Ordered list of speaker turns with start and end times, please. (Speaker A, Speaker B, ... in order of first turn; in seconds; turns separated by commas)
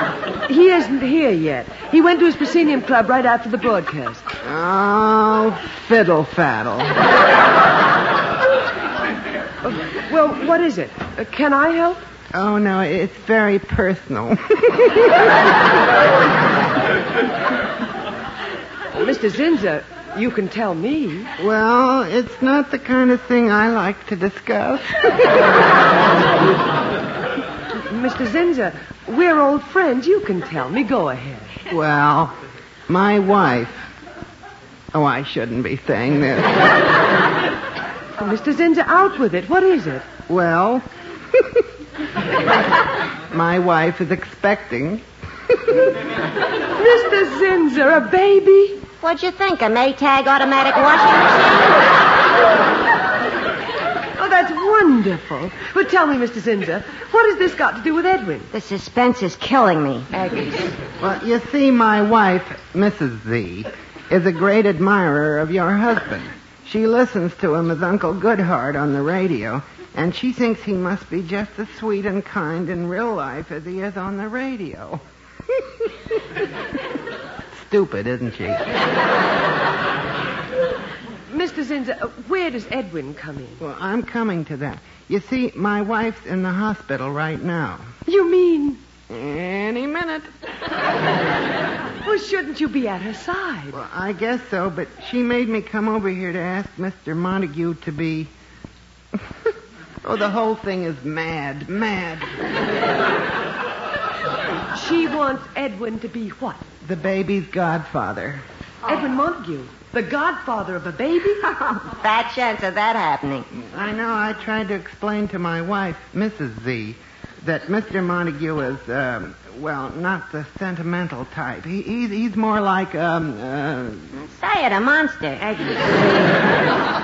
Speaker A: 0.5-4.2, Speaker B: 4.4-7.0, Speaker A: 9.6-12.0, Speaker B: 12.3-15.3, Speaker A: 18.9-21.3, Speaker B: 21.4-25.5, Speaker A: 27.9-31.5, Speaker B: 31.7-32.3, Speaker B: 32.9-33.8, Speaker B: 34.9-36.8, Speaker A: 38.2-40.0, Speaker B: 40.3-41.6, Speaker B: 43.3-45.9, Speaker A: 46.8-48.8, Speaker C: 49.0-51.8, Speaker A: 54.2-58.5, Speaker C: 58.5-60.1, Speaker A: 60.1-60.8, Speaker B: 61.0-75.9, Speaker B: 77.5-78.7, Speaker A: 81.3-83.6, Speaker B: 83.6-87.9, Speaker A: 88.1-88.8, Speaker B: 89.1-90.3, Speaker A: 92.0-93.7, Speaker B: 93.7-98.3, Speaker B: 99.2-99.5, Speaker B: 100.0-102.3, Speaker A: 104.7-106.6, Speaker B: 106.8-108.4, Speaker A: 108.9-111.5, Speaker C: 111.6-113.5, Speaker B: 113.5-124.1, Speaker C: 124.2-125.4